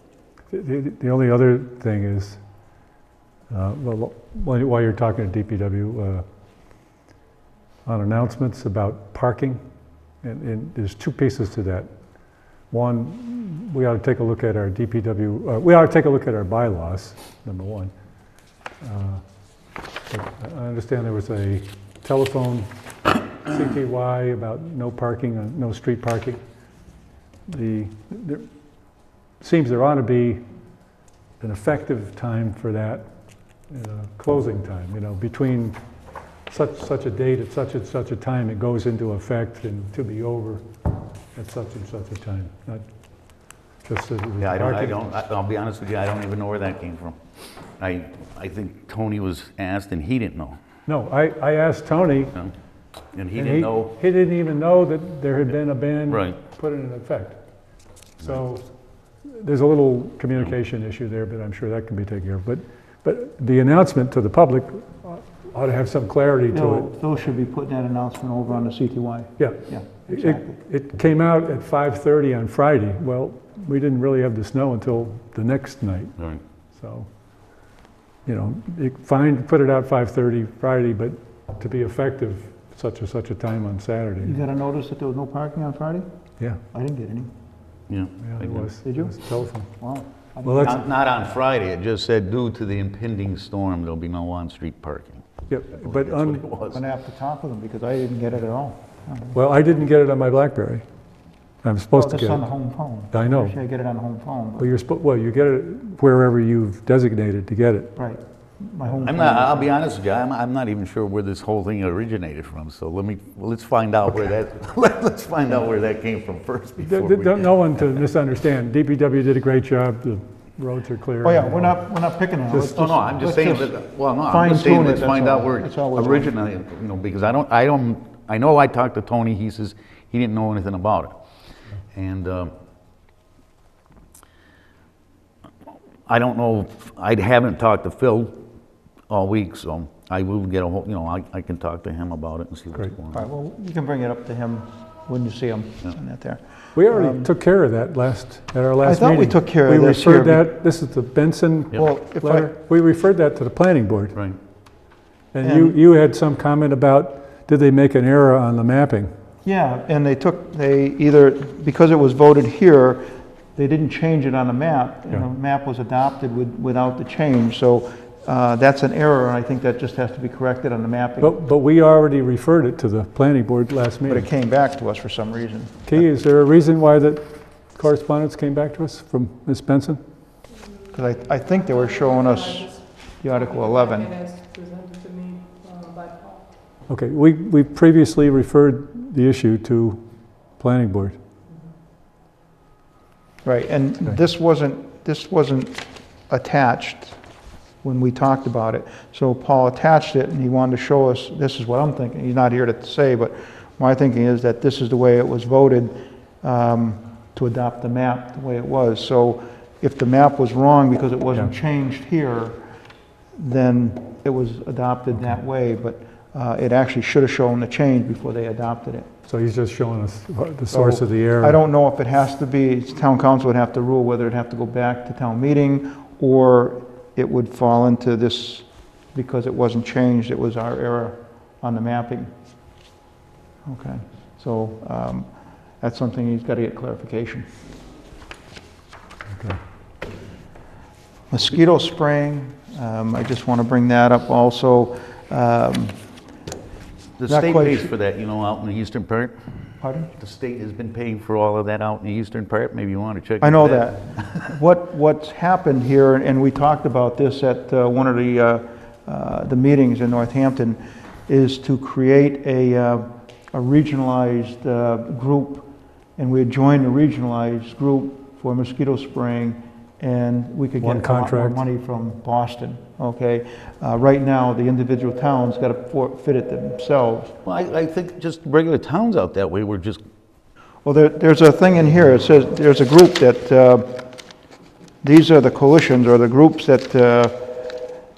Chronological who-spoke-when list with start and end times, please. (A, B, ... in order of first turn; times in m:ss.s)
0:00.5-0:02.4 A
0:03.5-0:06.2 A
0:07.9-0:09.6 A
0:10.2-0:11.9 A
0:12.7-0:17.9 A
0:18.8-0:19.2 A
0:20.1-0:26.4 A
0:27.5-0:28.4 A
0:29.4-0:30.4 A
0:31.4-0:33.0 A
0:33.7-0:35.8 A
0:36.5-0:40.6 A
0:41.4-0:42.8 A
0:43.8-0:44.9 A
0:44.4-0:47.2 B
0:47.8-0:50.6 B
0:50.9-0:52.3 A
0:53.1-0:54.0 B
0:53.4-0:57.4 A
0:56.1-0:56.4 B
0:58.2-0:58.7 A
0:59.2-1:06.9 A
1:06.5-1:10.6 C
1:09.4-1:16.1 A
1:16.8-1:17.1 A
1:18.3-1:24.3 A
1:24.2-1:26.1 C
1:26.7-1:27.3 C
1:27.9-1:28.7 B
1:28.2-1:29.7 A
1:28.8-1:29.2 C
1:29.8-1:30.8 C
1:30.4-1:30.8 A
1:30.6-1:36.8 B
1:35.5-1:36.4 A
1:36.7-1:39.4 C
1:39.3-1:40.8 A
1:41.6-1:42.4 A
1:41.9-1:44.7 C
1:43.1-1:43.6 A
1:44.6-1:47.9 A
1:48.0-1:49.7 C
1:49.0-1:58.0 B
1:56.8-2:01.8 A
2:01.2-2:06.3 C
2:02.5-2:02.8 A
2:02.7-2:11.1 B
2:11.9-2:12.5 B
2:16.1-2:18.4 B
2:19.1-2:23.3 B
2:23.1-2:27.3 C
2:26.8-2:34.2 A
2:28.8-2:30.4 C
2:31.8-2:32.5 C
2:35.3-2:39.1 A
2:35.4-2:35.8 C
2:39.4-2:51.4 C
2:51.2-2:54.3 A
2:54.1-2:55.9 C
2:55.9-3:00.0 A
3:00.9-3:04.1 C
3:01.7-3:06.5 D
3:06.9-3:10.0 A
3:10.6-3:11.2 A
3:13.4-3:17.2 C
3:17.8-3:32.6 C
3:33.4-3:39.1 C
3:39.3-3:41.6 A
3:40.7-3:52.3 C
3:53.6-3:55.3 C
3:55.8-3:57.5 C
3:59.3-3:59.6 A
4:01.3-4:06.0 C
4:07.2-4:09.4 B
4:07.3-4:07.9 C
4:09.8-4:10.1 C
4:10.2-4:14.4 B
4:13.4-4:37.4 C
4:30.8-4:31.6 A
4:37.5-4:40.0 B
4:40.8-4:44.0 C
4:45.0-4:47.6 C